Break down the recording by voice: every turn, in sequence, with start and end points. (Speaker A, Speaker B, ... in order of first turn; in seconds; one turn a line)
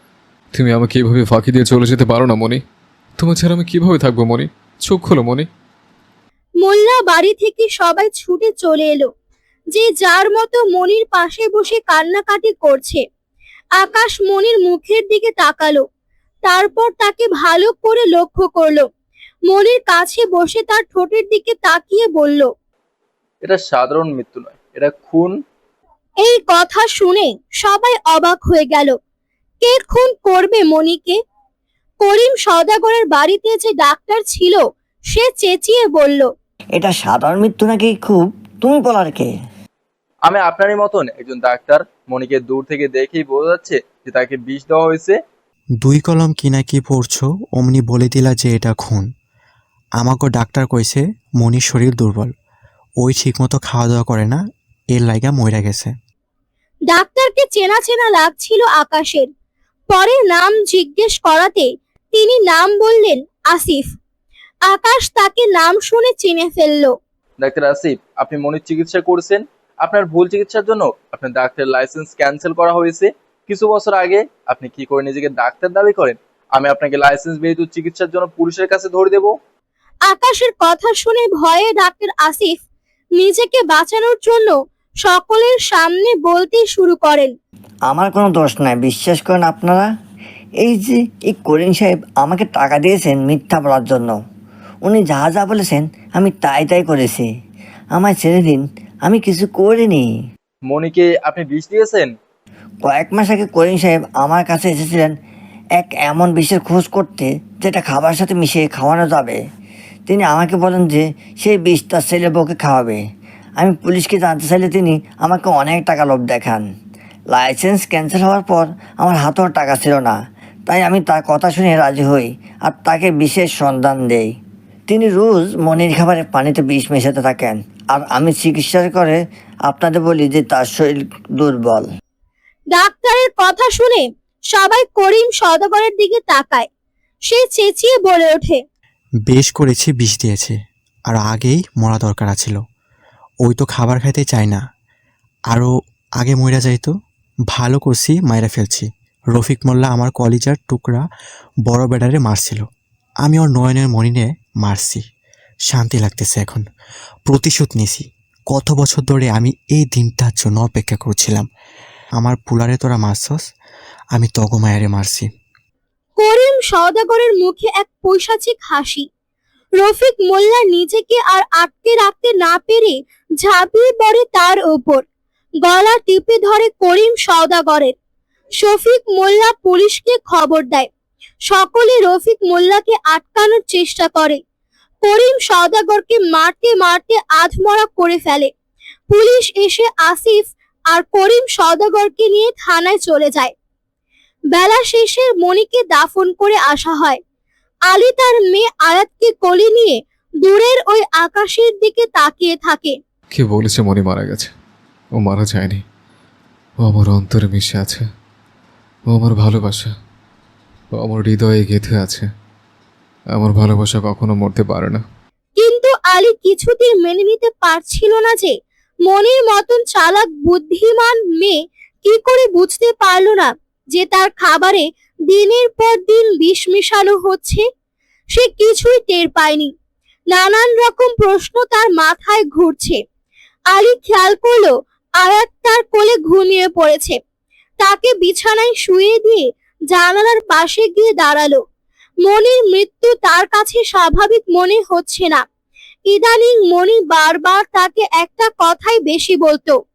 Speaker A: 0.5-2.6
Speaker A: 3.2-5.5
Speaker B: 6.6-9.1
Speaker B: 9.7-13.0
Speaker B: 13.8-15.8
Speaker B: 16.4-18.9
Speaker B: 19.5-22.5
Speaker C: 23.4-25.4
Speaker B: 26.2-28.9
Speaker B: 29.6-31.2
Speaker B: 32.0-36.3
Speaker D: 36.7-39.3
Speaker C: 40.2-45.2
Speaker E: 45.8-49.1
Speaker E: 50.0-52.3
Speaker E: 53.0-54.4
Speaker E: 54.9-55.9
Speaker B: 56.9-59.3
Speaker B: 59.9-63.9
Speaker B: 64.7-66.9
Speaker C: 67.4-79.3
Speaker B: 80.1-82.6
Speaker B: 83.2-87.3
Speaker D: 87.9-89.9
Speaker D: 90.6-94.2
Speaker D: 94.8-97.3
Speaker D: 97.9-100.1
Speaker C: 100.7-102.1
Speaker D: 102.8-105.1
Speaker D: 105.8-109.4
Speaker D: 110.1-113.0
Speaker D: 113.6-116.6
Speaker D: 117.3-120.1
Speaker D: 120.7-124.3
Speaker D: 124.9-131.8
Speaker B: 132.7-136.7
Speaker B: 137.3-138.6
Speaker E: 139.3-140.5
Speaker E: 141.1-142.6
Speaker E: 143.4-144.6
Speaker E: 145.5-146.9
Speaker E: 147.5-151.0
Speaker E: 151.7-152.7
Speaker E: 153.2-155.0
Speaker E: 155.7-156.6
Speaker E: 157.3-161.4
Speaker E: 162.2-163.4
Speaker E: 164.1-165.3
Speaker B: 166.2-169.1
Speaker B: 169.8-175.0
Speaker B: 175.6-177.9
Speaker B: 178.6-180.9
Speaker B: 181.4-184.4
Speaker B: 185.0-188.5
Speaker B: 189.1-193.5
Speaker B: 194.5-197.2
Speaker B: 197.9-202.9
Speaker A: 203.3-204.5
Speaker A: 205.2-205.8
Speaker A: 206.8-208.1
Speaker A: 209.1-209.9
Speaker A: 210.9-212.2
Speaker A: 213.3-215.0
Speaker B: 215.6-218.5
Speaker B: 219.1-227.6
Speaker B: 228.3-229.7
Speaker B: 230.3-233.0
Speaker B: 233.7-237.2
Speaker B: 237.8-241.6
Speaker B: 242.2-245.4
Speaker B: 246.1-249.8